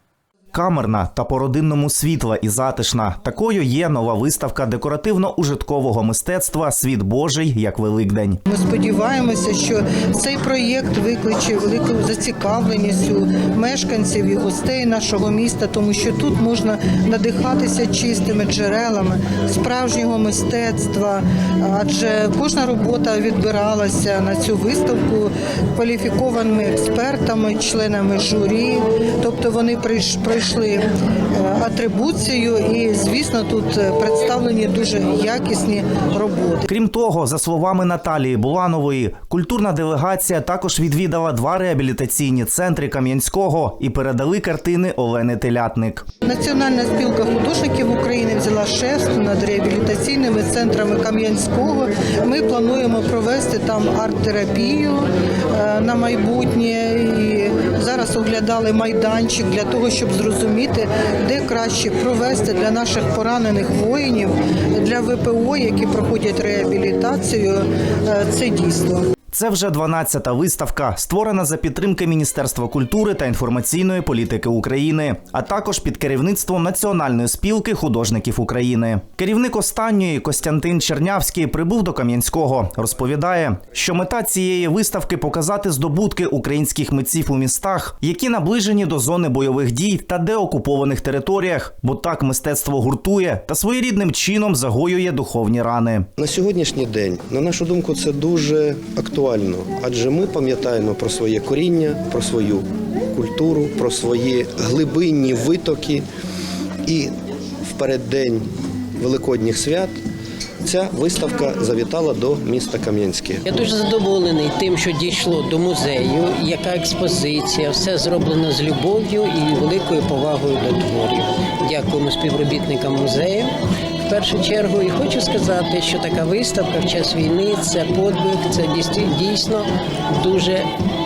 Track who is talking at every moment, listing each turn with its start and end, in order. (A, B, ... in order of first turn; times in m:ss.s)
0:00.5-0:08.4 A
0:08.5-0:36.6 B
0:36.7-0:46.1 A
0:46.2-1:09.1 B
1:09.3-1:36.1 A
1:36.2-1:46.1 C
1:46.9-1:47.1 C
1:47.6-1:50.0 C
1:50.6-1:53.4 C
1:53.4-2:03.5 D
2:04.0-2:10.7 D